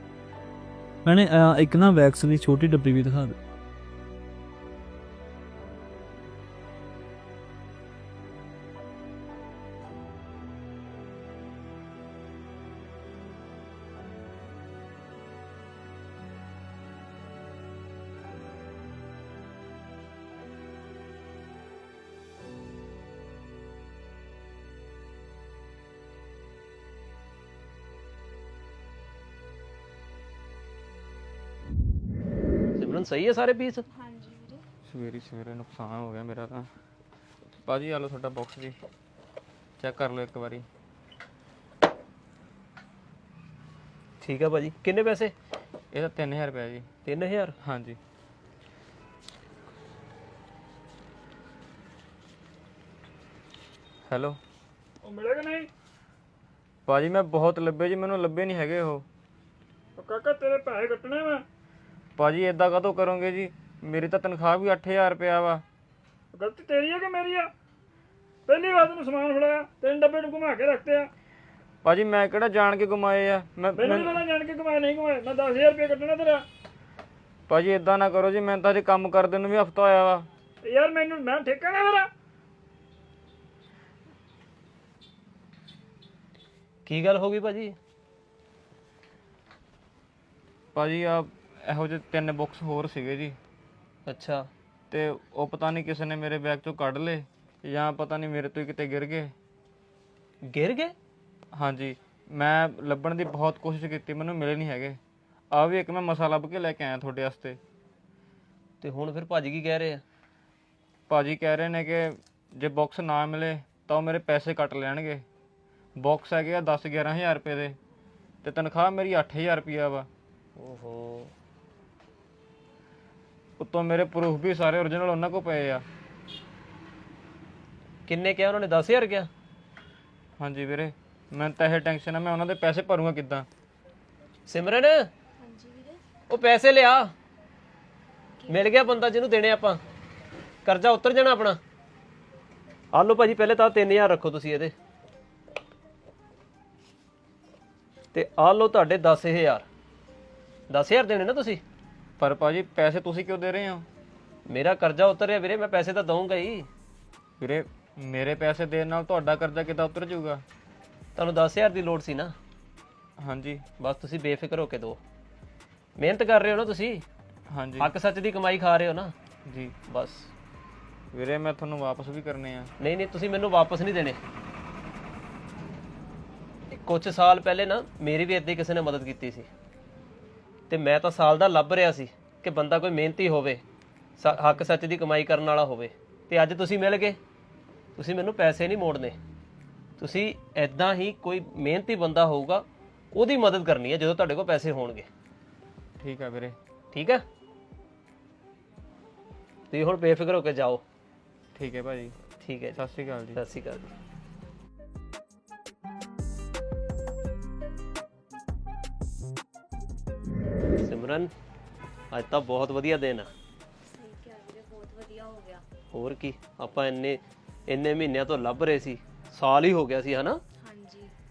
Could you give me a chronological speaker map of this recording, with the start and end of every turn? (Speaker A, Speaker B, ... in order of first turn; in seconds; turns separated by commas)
Speaker A: 1.1-3.4, Speaker B: 32.8-33.9, Speaker C: 33.9-34.6, Speaker D: 34.9-36.7, Speaker D: 37.6-38.8, Speaker D: 39.8-40.7, Speaker B: 44.2-45.3, Speaker D: 45.9-46.9, Speaker B: 47.0-47.5, Speaker D: 47.6-48.0, Speaker D: 54.1-54.4, Speaker C: 55.0-55.7, Speaker D: 56.9-59.1, Speaker C: 60.0-61.4, Speaker D: 62.2-65.6, Speaker C: 66.3-67.5, Speaker C: 68.5-71.1, Speaker D: 71.8-74.2, Speaker C: 73.8-76.5, Speaker D: 77.5-80.3, Speaker C: 80.7-82.1, Speaker B: 86.9-87.8, Speaker D: 90.8-93.4, Speaker B: 94.1-94.5, Speaker D: 94.9-99.3, Speaker B: 100.5-100.9, Speaker D: 101.5-105.0, Speaker D: 105.5-107.6, Speaker B: 108.8-110.0, Speaker D: 111.1-115.2, Speaker D: 116.0-117.8, Speaker D: 118.4-120.1, Speaker B: 120.6-121.3, Speaker D: 123.6-125.8, Speaker B: 128.1-129.3, Speaker D: 130.4-133.5, Speaker B: 134.5-135.1, Speaker C: 135.4-136.0, Speaker B: 136.3-137.1, Speaker C: 138.4-138.7, Speaker B: 138.5-139.8, Speaker B: 140.7-141.6, Speaker B: 142.9-144.7, Speaker B: 148.1-149.7, Speaker B: 150.7-151.6, Speaker D: 152.2-153.9, Speaker B: 154.5-156.7, Speaker D: 157.4-160.4, Speaker B: 161.2-162.3, Speaker D: 163.2-163.7, Speaker B: 163.8-165.0, Speaker B: 166.0-167.0, Speaker D: 167.5-167.9, Speaker B: 167.8-169.1, Speaker D: 169.5-169.8, Speaker B: 169.9-170.3, Speaker D: 171.1-172.7, Speaker B: 172.8-174.2, Speaker B: 176.7-179.5, Speaker B: 180.7-183.6, Speaker B: 184.2-187.2, Speaker B: 188.0-189.2, Speaker B: 190.0-195.1, Speaker D: 196.0-196.6, Speaker B: 196.9-197.2, Speaker B: 199.7-200.8, Speaker D: 201.5-202.2, Speaker B: 202.4-202.8, Speaker D: 202.7-203.4, Speaker B: 203.3-203.8, Speaker B: 210.8-211.3, Speaker B: 212.1-213.3, Speaker E: 214.0-215.7, Speaker B: 215.9-220.4, Speaker E: 220.6-221.1